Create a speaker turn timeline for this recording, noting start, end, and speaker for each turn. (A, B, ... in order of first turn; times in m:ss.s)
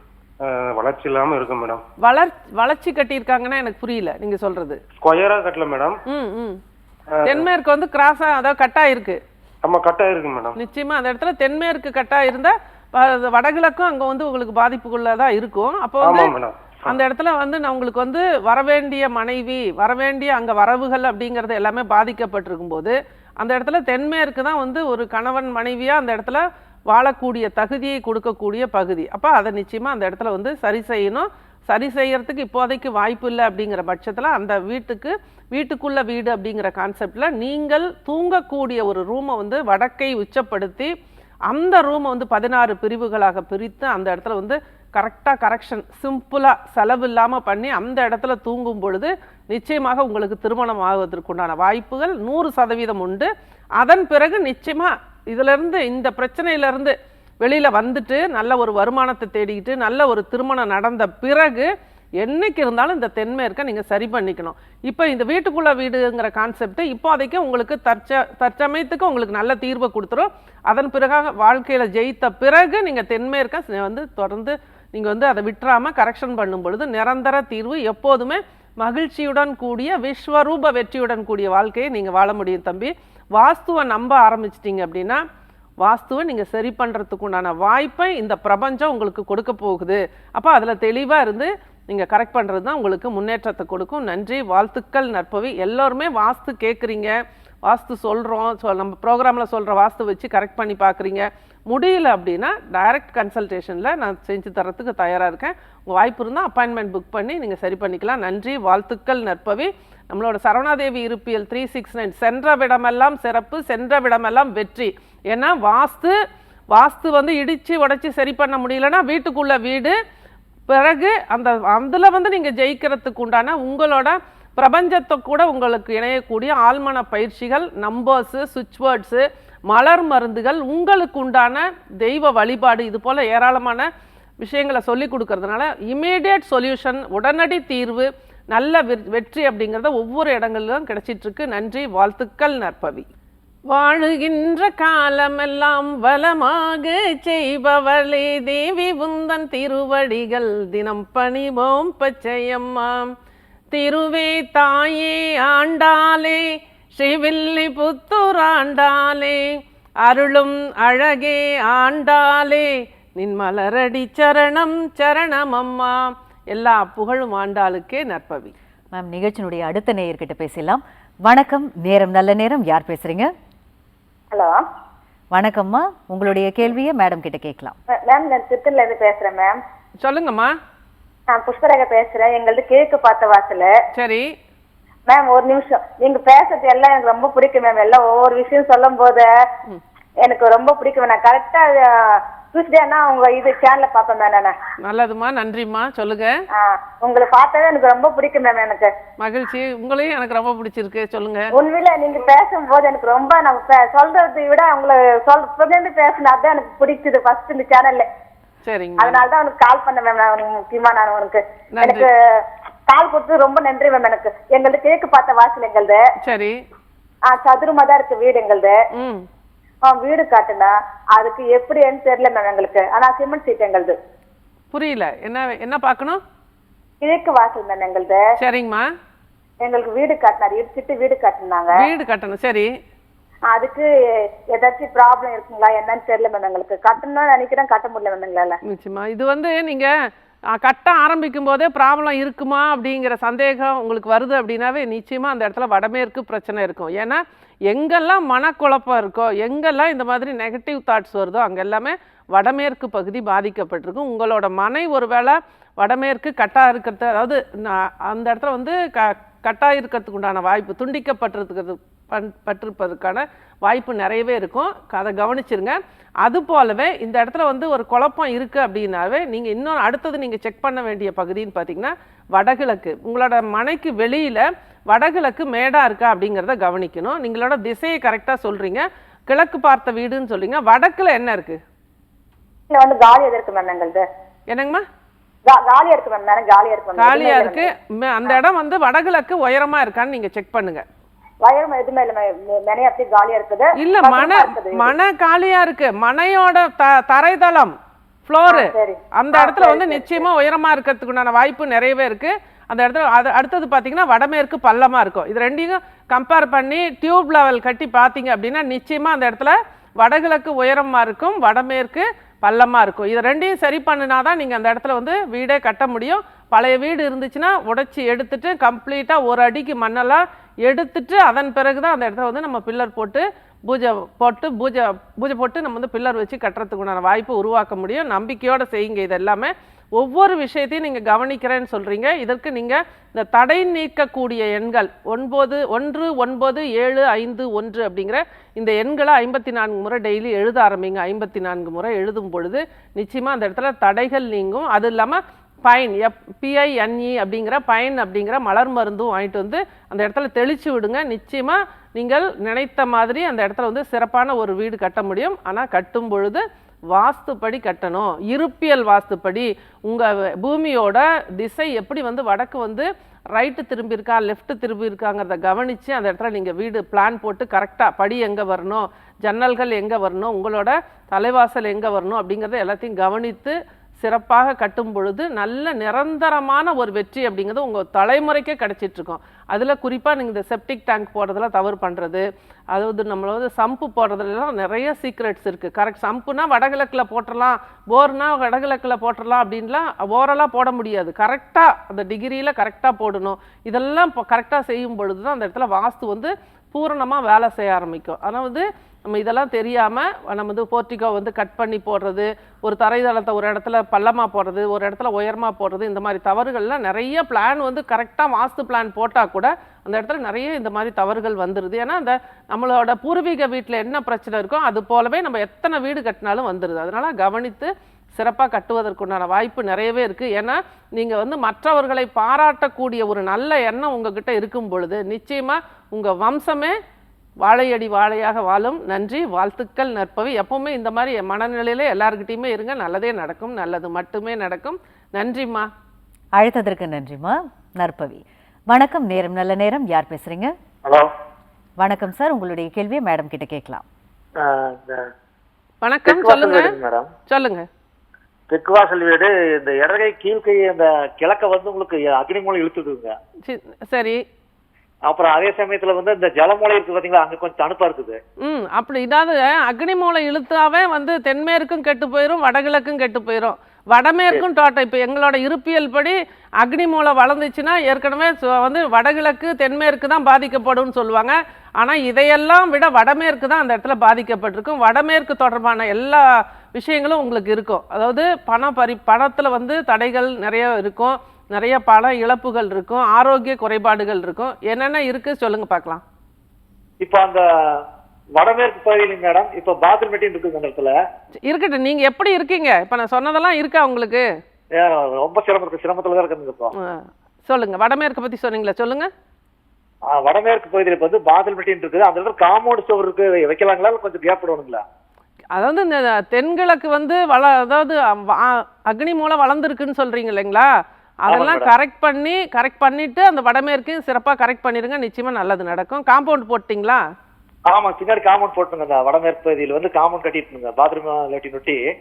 0:00.4-0:01.8 A
0:02.0-0:04.8 B
0:05.0-0:06.0 A
0:06.1-0:06.6 B
0:07.1-0:07.5 A
0:07.3-0:09.2 B
0:09.6-0:10.6 A
0:10.6-0:16.3 B
0:16.0-0:17.0 A
0:16.9-0:40.9 B
0:41.5-1:25.2 B
1:25.8-1:37.1 B
1:37.7-1:56.2 B
1:56.7-2:00.0 B
2:00.7-2:13.9 B
2:14.4-2:23.1 B
2:23.7-2:33.1 B
2:33.7-2:48.5 B
2:48.9-2:53.3 C
2:54.3-2:54.6 D
2:55.3-2:57.8 C
2:57.9-2:59.6 D
3:00.0-3:00.5 B
3:01.3-3:03.8 D
3:04.0-3:04.3 B
3:05.1-3:09.3 D
3:10.2-3:14.6 D
3:14.8-3:16.4 B
3:16.5-3:18.9 D
3:19.2-3:21.5 B
3:21.5-3:28.1 D
3:28.6-3:29.2 B
3:29.0-3:36.1 D
3:31.8-3:32.1 B
3:36.2-3:36.6 B
3:37.3-3:38.8 D
3:38.9-3:39.2 B
3:39.8-3:44.0 D
3:44.7-3:46.2 B
3:47.0-3:48.3 D
3:48.4-3:48.9 B
3:49.6-3:51.8 D
3:51.8-3:52.7 B
3:53.5-3:58.6 D
3:58.6-3:59.9 B
4:00.5-4:41.6 B
4:42.7-4:44.1 D
4:44.5-4:44.8 B
4:45.5-4:47.7 D
4:47.0-4:50.8 B
4:51.4-4:54.9 D
4:53.8-4:57.8 B
4:58.3-7:06.8 B
4:58.5-5:00.3 D
7:07.4-7:15.7 B
7:16.4-7:20.5 C
7:21.8-7:23.8 C
7:24.4-7:25.1 E
7:25.8-7:26.7 B
7:26.1-7:27.1 E
7:27.3-7:27.7 B
7:28.5-7:33.1 E
7:33.4-7:34.2 B
7:35.1-7:38.2 E
7:38.4-8:06.0 B
8:07.0-8:07.8 E
8:08.4-8:11.0 E
8:11.4-8:14.3 B
8:14.7-8:16.7 E
8:16.8-8:19.1 B
8:20.1-8:24.8 E
8:25.5-8:30.7 B
8:31.2-8:37.0 B
8:31.3-8:31.7 E
8:37.7-8:41.8 E